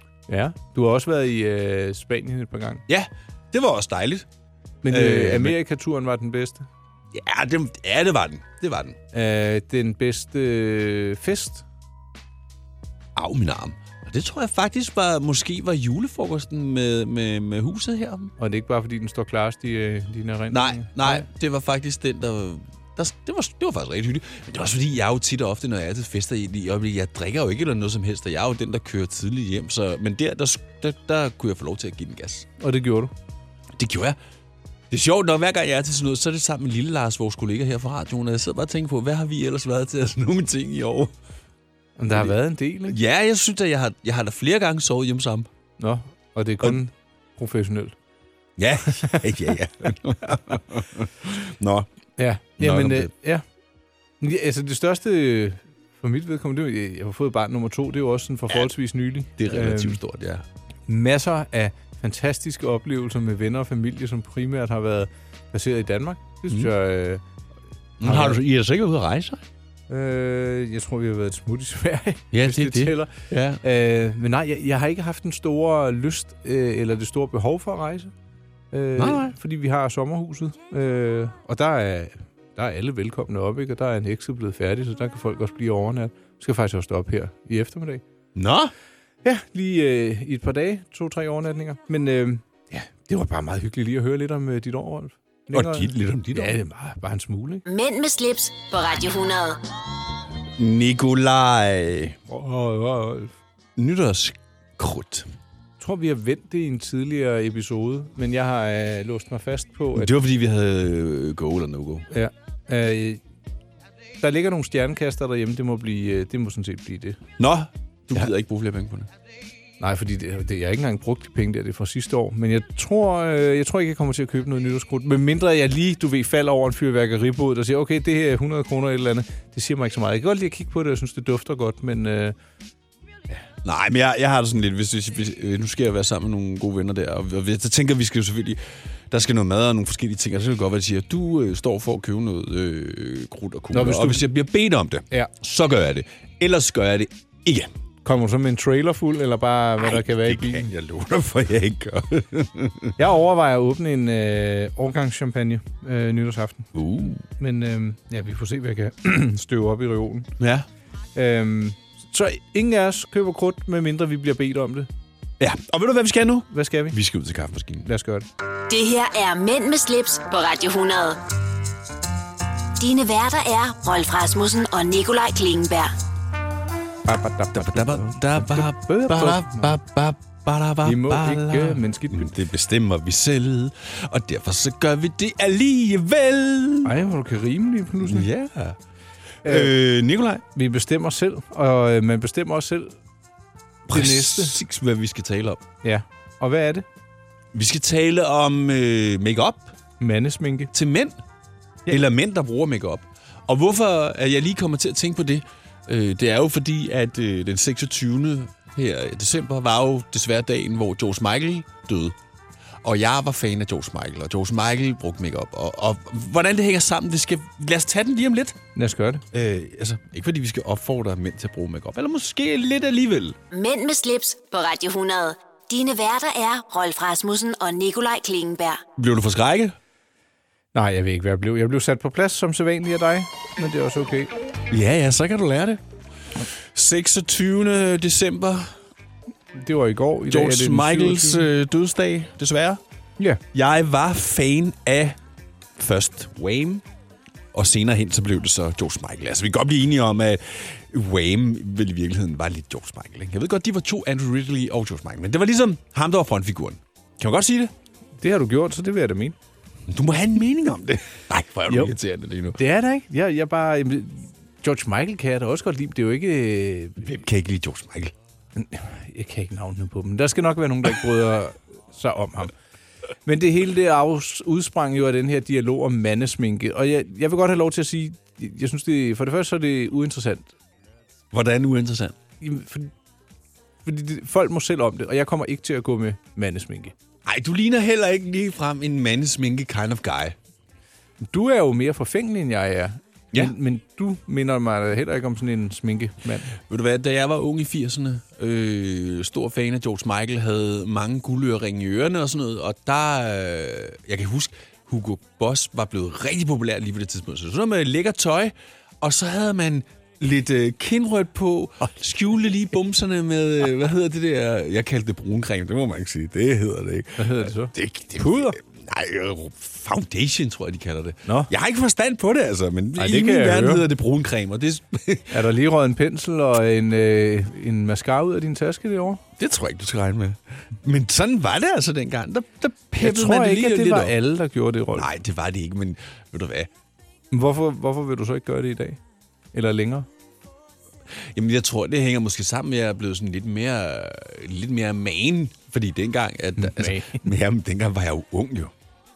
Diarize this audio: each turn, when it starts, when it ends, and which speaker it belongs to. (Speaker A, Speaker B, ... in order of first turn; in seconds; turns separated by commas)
Speaker A: 0.3-2.8, Speaker B: 2.9-4.3, Speaker A: 4.8-6.7, Speaker B: 4.9-5.6, Speaker B: 7.1-9.0, Speaker A: 9.1-11.6, Speaker B: 13.2-18.3, Speaker A: 18.4-21.3, Speaker B: 20.5-32.5, Speaker A: 32.6-33.1, Speaker B: 33.8-34.2, Speaker B: 34.9-41.1, Speaker A: 42.0-43.0, Speaker B: 42.9-45.5, Speaker A: 45.8-47.9, Speaker B: 48.6-51.9, Speaker A: 48.9-49.2, Speaker A: 52.2-53.4, Speaker B: 52.6-53.1, Speaker A: 54.2-60.0, Speaker B: 59.4-60.4, Speaker A: 60.9-67.2, Speaker B: 68.0-69.4, Speaker A: 68.0-68.4, Speaker A: 69.9-78.1, Speaker B: 72.3-73.6, Speaker A: 78.7-88.0, Speaker B: 79.0-79.3, Speaker B: 88.3-88.7, Speaker A: 89.2-97.6, Speaker B: 95.5-96.5, Speaker C: 97.7-99.6, Speaker B: 100.6-102.2, Speaker A: 102.3-103.3, Speaker B: 103.8-105.3, Speaker A: 105.8-110.1, Speaker B: 109.9-112.1, Speaker A: 112.1-113.2, Speaker A: 114.2-117.2, Speaker B: 117.4-119.1, Speaker A: 119.8-132.3, Speaker B: 133.6-138.6, Speaker B: 139.1-147.7, Speaker A: 143.7-144.3, Speaker A: 148.0-150.7, Speaker B: 149.8-152.9, Speaker A: 153.0-156.7, Speaker B: 156.7-157.2, Speaker A: 157.4-160.3, Speaker B: 160.4-160.7, Speaker A: 161.1-164.9, Speaker B: 165.4-167.8, Speaker A: 166.5-167.0, Speaker A: 167.8-168.2, Speaker C: 168.7-171.2, Speaker C: 172.8-175.9, Speaker A: 177.1-179.7, Speaker B: 177.5-186.9, Speaker A: 180.8-182.3, Speaker A: 186.8-188.3, Speaker B: 188.0-188.8, Speaker A: 189.4-189.7, Speaker B: 189.4-190.4, Speaker A: 190.5-192.9, Speaker B: 193.9-195.6, Speaker A: 193.9-194.5, Speaker A: 195.8-196.8, Speaker B: 197.5-199.7, Speaker A: 200.0-200.7, Speaker B: 200.7-201.2, Speaker B: 201.9-212.1, Speaker B: 212.8-218.6, Speaker A: 218.7-219.2, Speaker B: 219.3-223.4, Speaker C: 223.5-228.8, Speaker B: 229.0-229.8, Speaker A: 230.7-234.3, Speaker B: 234.7-235.8, Speaker B: 236.7-238.7, Speaker A: 239.5-241.4, Speaker B: 240.3-242.8, Speaker B: 243.5-245.2, Speaker B: 245.8-246.8, Speaker B: 247.5-257.7, Speaker A: 258.2-259.4, Speaker B: 259.9-262.6, Speaker A: 262.6-267.0, Speaker B: 267.0-268.1, Speaker A: 268.6-272.5, Speaker A: 273.2-280.5, Speaker B: 281.3-282.1, Speaker A: 282.4-282.9, Speaker A: 283.8-286.9, Speaker B: 287.2-290.4, Speaker A: 291.2-296.5, Speaker B: 296.7-325.4, Speaker A: 317.2-318.6, Speaker A: 323.0-323.9, Speaker A: 325.3-329.2, Speaker B: 329.4-334.1, Speaker A: 333.0-335.1, Speaker B: 334.9-336.7, Speaker A: 337.3-339.0, Speaker A: 339.5-340.1, Speaker B: 341.3-348.7, Speaker A: 346.6-347.3